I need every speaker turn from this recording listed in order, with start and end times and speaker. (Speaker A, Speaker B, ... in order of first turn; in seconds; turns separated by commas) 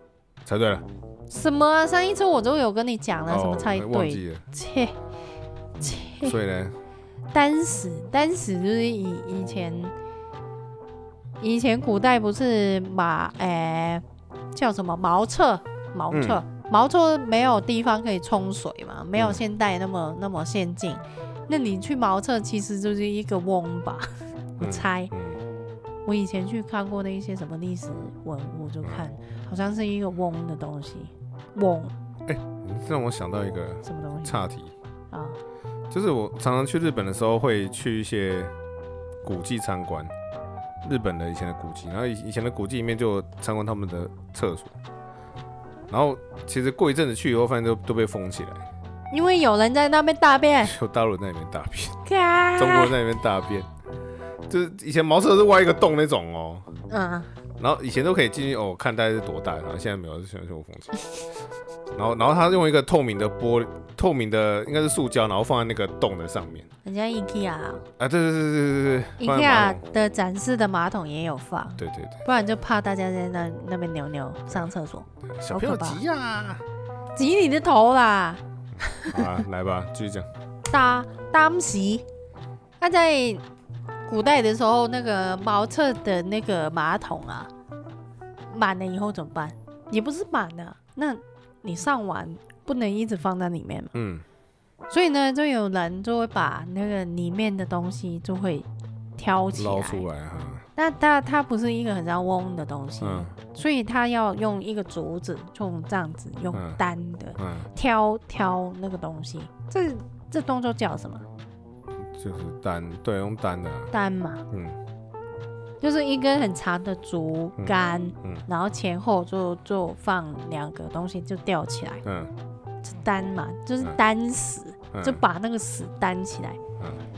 Speaker A: 0.4-0.8, Speaker B: 1.3-5.0, Speaker A: 3.3-4.4, Speaker B: 5.8-6.3, Speaker A: 6.2-6.8, Speaker B: 7.3-9.9, Speaker B: 11.4-24.1, Speaker A: 16.1-16.4, Speaker A: 19.2-19.4, Speaker B: 24.6-25.1, Speaker A: 24.6-25.4, Speaker B: 26.1-31.9, Speaker A: 28.8-29.1, Speaker A: 32.3-34.7, Speaker B: 33.9-34.5, Speaker B: 35.1-35.4, Speaker A: 35.9-38.5, Speaker A: 39.2-40.1, Speaker A: 40.8-44.8, Speaker A: 45.9-48.6, Speaker B: 49.1-50.7, Speaker A: 50.6-52.0, Speaker B: 52.0-53.0, Speaker A: 52.6-53.7, Speaker A: 54.5-56.7, Speaker B: 56.9-57.3, Speaker A: 57.6-60.9, Speaker A: 62.0-66.7, Speaker B: 66.8-67.8, Speaker A: 68.0-69.8, Speaker B: 69.2-76.0, Speaker A: 71.8-72.2, Speaker A: 75.3-76.6, Speaker B: 77.2-79.3, Speaker A: 79.0-80.3, Speaker B: 80.7-82.0, Speaker B: 82.8-83.4, Speaker B: 84.1-87.5, Speaker B: 88.5-93.9, Speaker A: 93.9-94.2, Speaker B: 94.9-100.1, Speaker A: 99.5-100.7, Speaker B: 100.8-111.2, Speaker A: 103.0-103.3, Speaker A: 106.5-106.8, Speaker A: 107.4-107.7, Speaker A: 112.1-113.9, Speaker B: 113.9-114.4, Speaker A: 114.5-114.8, Speaker B: 115.8-122.0, Speaker A: 117.6-118.4, Speaker A: 122.0-122.3, Speaker B: 122.8-126.6, Speaker A: 124.9-125.2